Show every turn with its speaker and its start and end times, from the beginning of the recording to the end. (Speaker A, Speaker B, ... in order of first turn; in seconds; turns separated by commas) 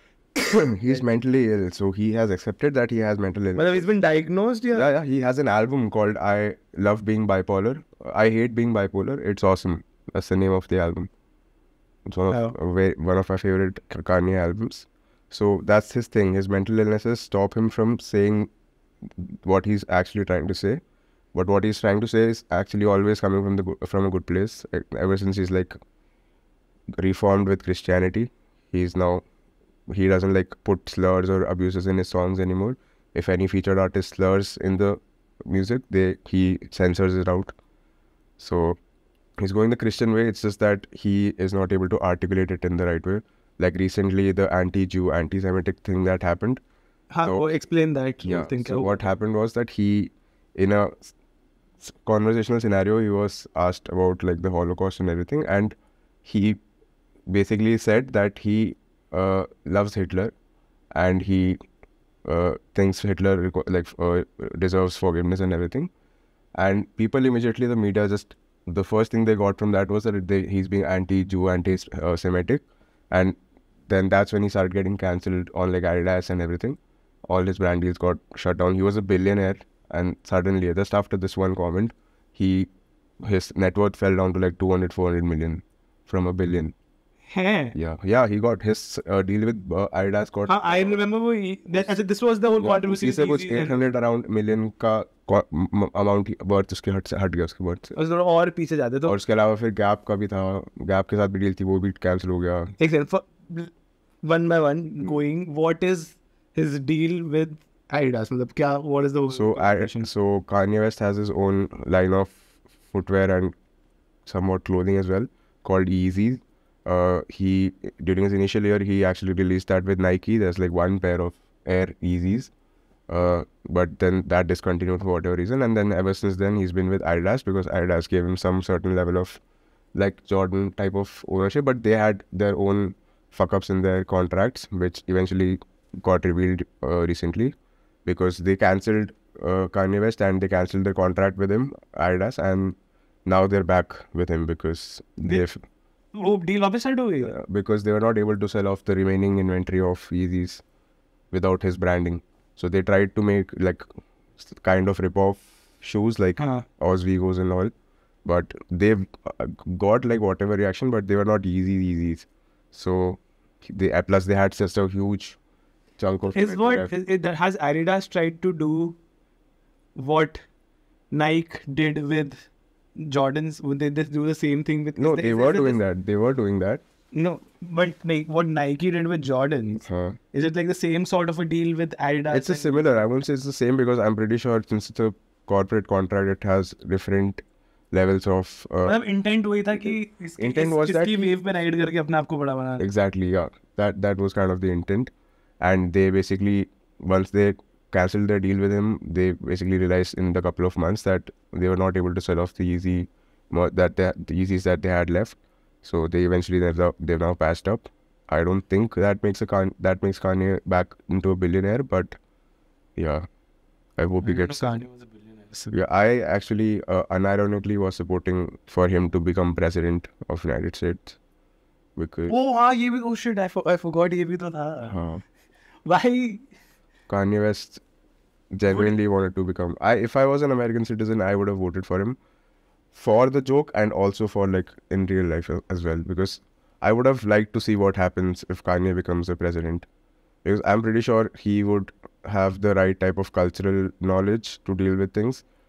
Speaker A: 0.4-3.8, Speaker B: 3.5-4.9, Speaker A: 4.7-11.1, Speaker A: 12.1-18.5, Speaker B: 12.3-12.5, Speaker A: 19.2-20.8, Speaker A: 21.3-25.7, Speaker A: 27.0-29.2, Speaker A: 29.9-37.5, Speaker A: 38.4-38.8, Speaker A: 39.4-46.6, Speaker B: 47.1-48.9, Speaker A: 48.2-51.1, Speaker A: 51.8-56.6, Speaker A: 57.3-60.3, Speaker A: 60.9-61.6, Speaker A: 62.2-65.9, Speaker A: 66.5-73.4, Speaker A: 73.9-86.7, Speaker B: 87.3-87.7, Speaker A: 87.7-90.6, Speaker B: 90.5-93.7, Speaker A: 92.6-97.9, Speaker B: 97.9-99.2, Speaker A: 99.0-102.7, Speaker B: 102.8-103.7, Speaker B: 104.2-110.1, Speaker A: 109.3-113.5, Speaker A: 114.2-122.5, Speaker A: 123.1-129.4, Speaker A: 129.9-145.6, Speaker B: 146.1-147.3, Speaker A: 147.2-150.6, Speaker A: 151.3-153.8, Speaker A: 154.4-157.7, Speaker B: 156.4-156.7, Speaker A: 158.2-165.4, Speaker A: 166.0-166.9, Speaker B: 166.3-169.0, Speaker B: 169.9-170.4, Speaker B: 171.1-175.8, Speaker A: 174.9-176.8, Speaker B: 177.1-183.0, Speaker A: 179.8-180.2, Speaker A: 182.3-188.9, Speaker B: 188.8-192.8, Speaker A: 190.4-191.3, Speaker A: 192.8-212.2, Speaker A: 213.0-213.2, Speaker A: 214.0-214.6, Speaker B: 214.2-215.7, Speaker A: 215.7-221.2, Speaker A: 221.9-222.3, Speaker B: 222.3-224.9, Speaker A: 224.9-225.2, Speaker B: 225.8-226.4, Speaker A: 227.1-227.8, Speaker A: 228.5-232.2, Speaker A: 232.9-239.9, Speaker A: 240.4-245.4